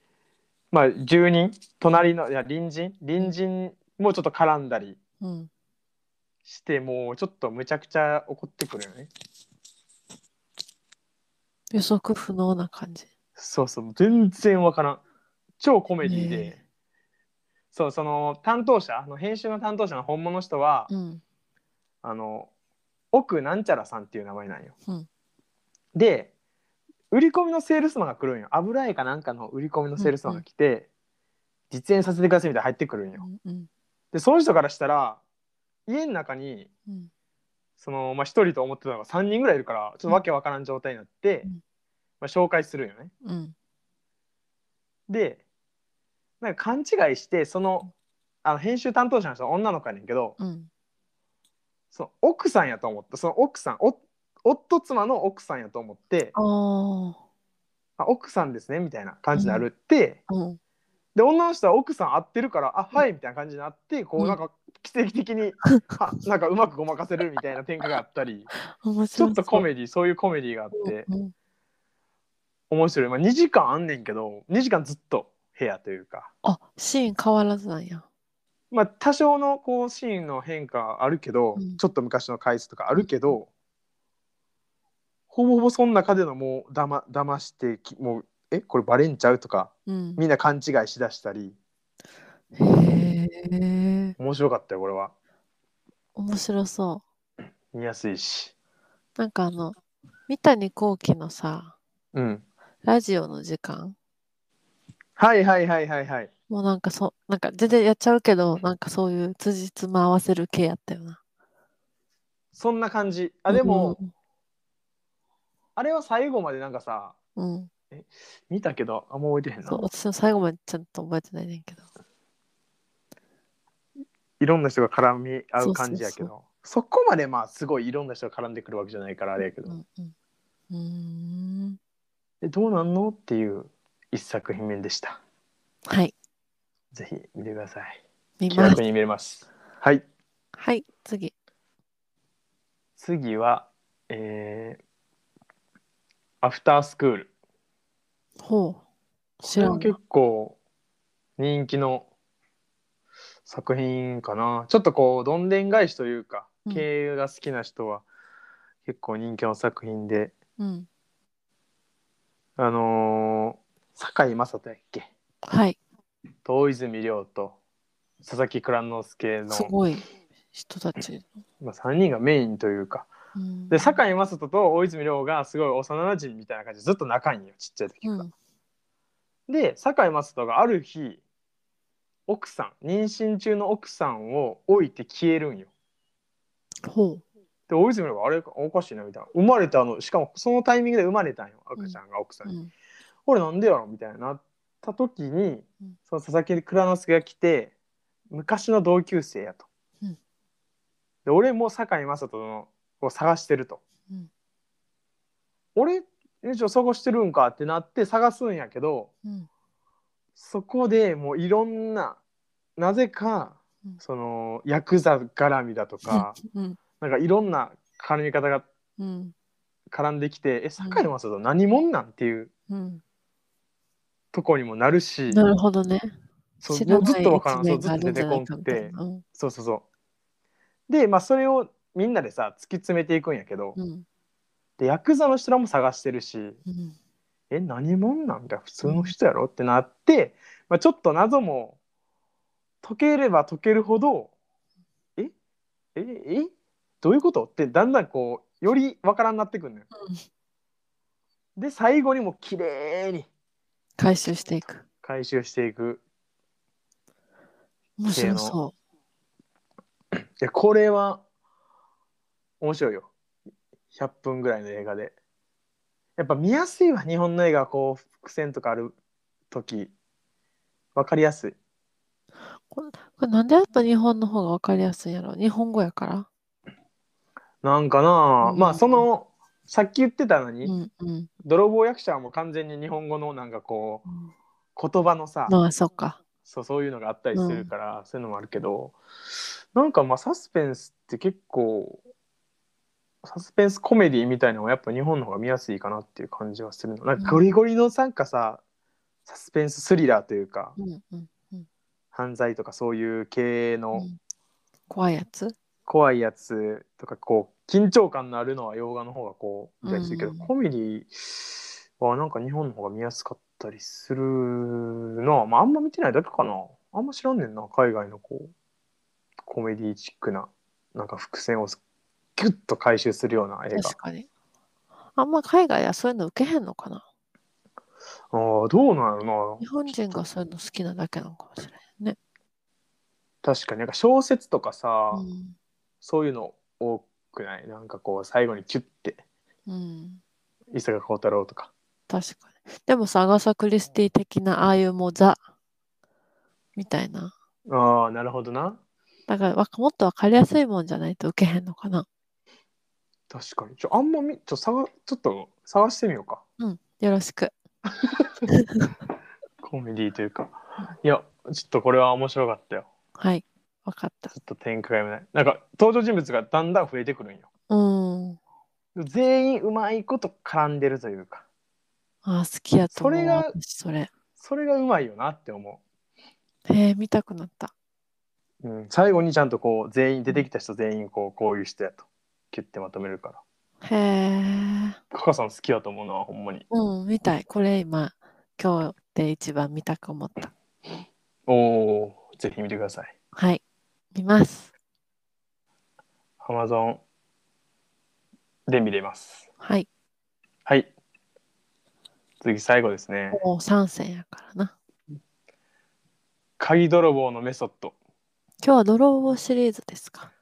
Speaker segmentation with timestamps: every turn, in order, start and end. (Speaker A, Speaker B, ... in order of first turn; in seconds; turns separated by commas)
Speaker A: 0.7-5.0, Speaker B: 5.2-5.5, Speaker A: 6.5-9.1, Speaker B: 11.7-13.1, Speaker A: 13.4-15.0, Speaker A: 15.6-16.6, Speaker B: 16.0-16.5, Speaker A: 17.7-20.9, Speaker B: 20.9-21.2, Speaker A: 22.0-22.5, Speaker A: 23.1-24.7, Speaker A: 25.9-26.3, Speaker A: 27.1-30.9, Speaker B: 30.0-30.4, Speaker A: 31.7-33.2, Speaker B: 33.2-33.7, Speaker A: 34.1-35.2, Speaker A: 35.9-36.7, Speaker A: 37.8-41.5, Speaker A: 42.2-43.1, Speaker B: 43.2-43.5, Speaker A: 45.1-45.4, Speaker A: 46.4-47.9, Speaker A: 48.4-50.4, Speaker B: 50.4-50.7, Speaker A: 51.9-56.3, Speaker B: 56.3-57.2, Speaker A: 58.0-60.2, Speaker B: 59.3-59.6, Speaker B: 60.3-60.6, Speaker A: 61.1-68.5, Speaker B: 68.7-69.7, Speaker A: 69.1-71.1, Speaker B: 70.7-71.3, Speaker A: 72.7-76.3, Speaker B: 76.4-78.0, Speaker A: 78.7-83.5, Speaker B: 82.9-83.3, Speaker A: 85.3-91.5, Speaker B: 89.9-90.2, Speaker B: 92.5-94.2, Speaker A: 94.2-95.1, Speaker B: 96.2-97.0, Speaker A: 97.7-98.5, Speaker B: 99.2-99.8, Speaker B: 100.3-101.8, Speaker A: 102.1-102.4, Speaker B: 102.8-103.9, Speaker A: 105.2-106.3, Speaker B: 106.5-111.2, Speaker A: 112.5-114.0, Speaker B: 113.5-114.1, Speaker A: 115.8-117.2, Speaker B: 117.3-117.7, Speaker A: 117.9-119.8, Speaker B: 119.7-121.8, Speaker A: 124.4-129.7, Speaker B: 125.6-126.3, Speaker B: 129.6-130.1, Speaker B: 130.7-131.8, Speaker A: 132.4-135.2, Speaker B: 135.9-136.1, Speaker A: 136.9-140.0, Speaker B: 138.4-138.8, Speaker B: 140.5-141.3, Speaker A: 143.0-144.8, Speaker A: 146.4-147.3, Speaker B: 148.4-148.8, Speaker B: 149.4-149.9, Speaker A: 149.5-150.6, Speaker A: 151.4-152.1, Speaker A: 153.4-158.1, Speaker A: 158.8-160.3, Speaker B: 160.6-160.9, Speaker A: 162.6-165.1, Speaker B: 165.4-165.8, Speaker A: 166.4-167.6, Speaker A: 168.2-169.7, Speaker B: 169.5-171.2, Speaker A: 171.6-173.1, Speaker B: 173.3-174.0, Speaker A: 173.7-178.3, Speaker B: 178.0-178.3, Speaker A: 179.5-181.2, Speaker A: 182.3-185.7, Speaker B: 186.8-187.2, Speaker A: 187.7-192.5, Speaker B: 191.8-192.7, Speaker A: 193.2-197.7, Speaker A: 198.3-199.7, Speaker A: 201.2-203.8, Speaker A: 205.7-209.1, Speaker A: 210.4-212.2, Speaker A: 212.8-216.4, Speaker B: 216.1-216.8, Speaker A: 217.0-218.7, Speaker B: 219.0-219.3, Speaker A: 219.9-222.5, Speaker B: 220.8-221.0, Speaker B: 222.7-223.0, Speaker A: 224.3-225.4, Speaker B: 225.3-226.1, Speaker A: 226.6-229.8, Speaker B: 226.7-229.2, Speaker A: 230.9-233.8, Speaker B: 233.8-234.0, Speaker A: 234.8-236.6, Speaker B: 236.7-236.9, Speaker A: 237.5-241.8, Speaker B: 238.8-239.1, Speaker A: 242.8-244.3, Speaker A: 245.9-249.9, Speaker B: 249.9-250.2, Speaker A: 251.6-253.3, Speaker B: 254.0-254.8, Speaker A: 255.0-256.0, Speaker B: 258.0-258.7, Speaker A: 258.1-258.6, Speaker A: 260.4-261.2, Speaker A: 262.6-263.1, Speaker A: 263.9-265.1, Speaker A: 266.2-268.9, Speaker A: 269.5-269.9, Speaker A: 270.9-271.6, Speaker B: 272.7-276.3, Speaker A: 277.6-280.7, Speaker B: 278.4-279.1, Speaker B: 280.6-281.3, Speaker A: 281.4-284.0, Speaker A: 284.8-285.5, Speaker B: 285.5-286.2, Speaker A: 286.4-289.0, Speaker B: 287.3-287.7, Speaker A: 289.7-292.0, Speaker A: 293.2-298.6, Speaker B: 297.2-297.4, Speaker A: 299.2-300.8, Speaker B: 300.8-301.6, Speaker A: 302.1-304.1, Speaker B: 304.9-305.6, Speaker A: 305.9-318.5, Speaker B: 309.8-310.5, Speaker A: 319.4-321.8, Speaker A: 322.4-323.9, Speaker B: 323.7-324.3, Speaker B: 325.1-327.0, Speaker A: 328.3-329.6, Speaker B: 329.6-332.2, Speaker A: 333.4-335.2, Speaker B: 335.1-335.5, Speaker A: 336.0-339.2, Speaker B: 339.7-340.2, Speaker A: 340.7-341.7, Speaker B: 342.1-345.4, Speaker B: 346.8-347.3, Speaker A: 347.7-348.8, Speaker B: 349.3-352.1, Speaker A: 353.3-356.4, Speaker B: 356.6-357.5, Speaker A: 358.0-358.3, Speaker B: 358.5-358.9, Speaker A: 359.6-362.9, Speaker B: 363.2-364.3, Speaker A: 364.3-367.5, Speaker B: 367.7-368.4, Speaker A: 368.9-371.4, Speaker B: 372.2-374.1, Speaker A: 372.9-373.5, Speaker A: 374.4-375.8, Speaker B: 376.6-377.7, Speaker A: 378.6-383.4, Speaker B: 383.8-385.0, Speaker A: 385.1-386.6, Speaker B: 386.7-390.5, Speaker A: 391.5-393.1, Speaker B: 393.3-393.6, Speaker B: 394.1-394.7, Speaker A: 396.4-397.0, Speaker A: 398.7-399.5, Speaker B: 399.6-399.9, Speaker A: 402.4-403.4, Speaker B: 403.3-404.7, Speaker A: 406.6-407.9, Speaker B: 408.6-410.3